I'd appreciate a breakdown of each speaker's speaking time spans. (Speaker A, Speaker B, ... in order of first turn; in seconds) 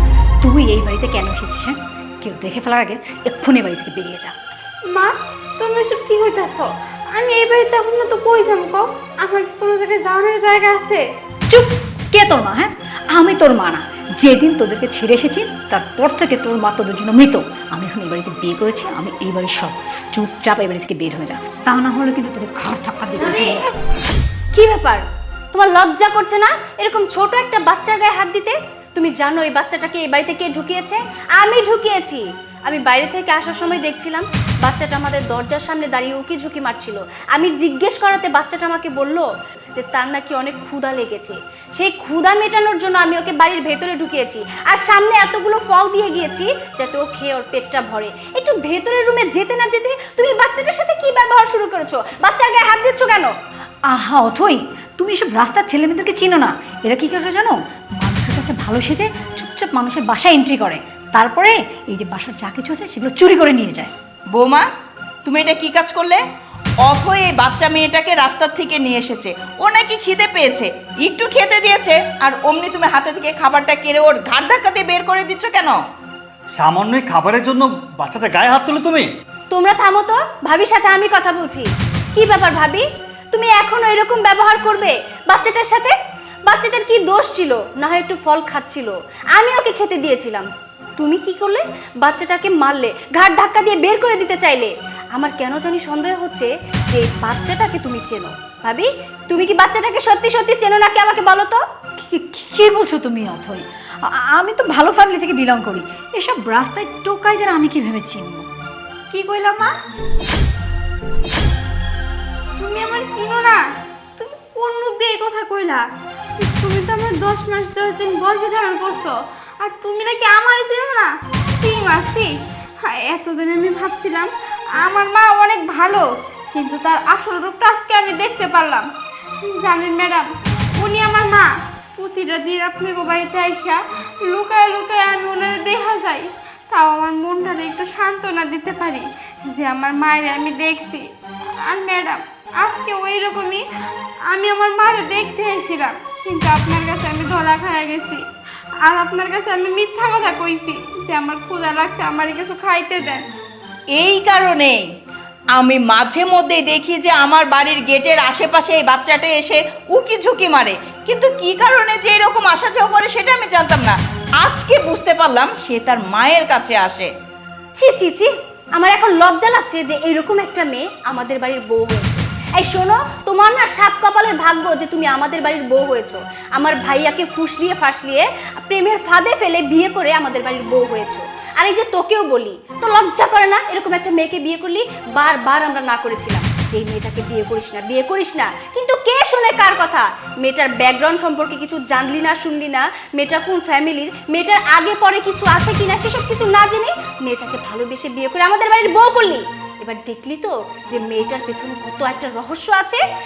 Speaker A: 0.4-4.3, 11.5-23.6, 53.9-63.9, 102.0-108.5
Speaker B: 4.9-11.0, 109.1-109.7, 112.6-113.6, 114.2-115.8, 116.4-121.1, 121.6-122.3, 122.8-128.8, 129.4-141.1, 141.6-143.6, 144.3-148.2, 148.8-153.2
Speaker C: 23.2-23.6, 24.5-25.0, 25.5-53.3, 79.5-85.9, 86.5-90.5, 91.0-101.6, 167.8-203.0
Speaker D: 64.3-64.7, 65.2-66.2, 66.8-75.8, 153.9-154.8, 155.6-167.1
Speaker E: 76.6-79.1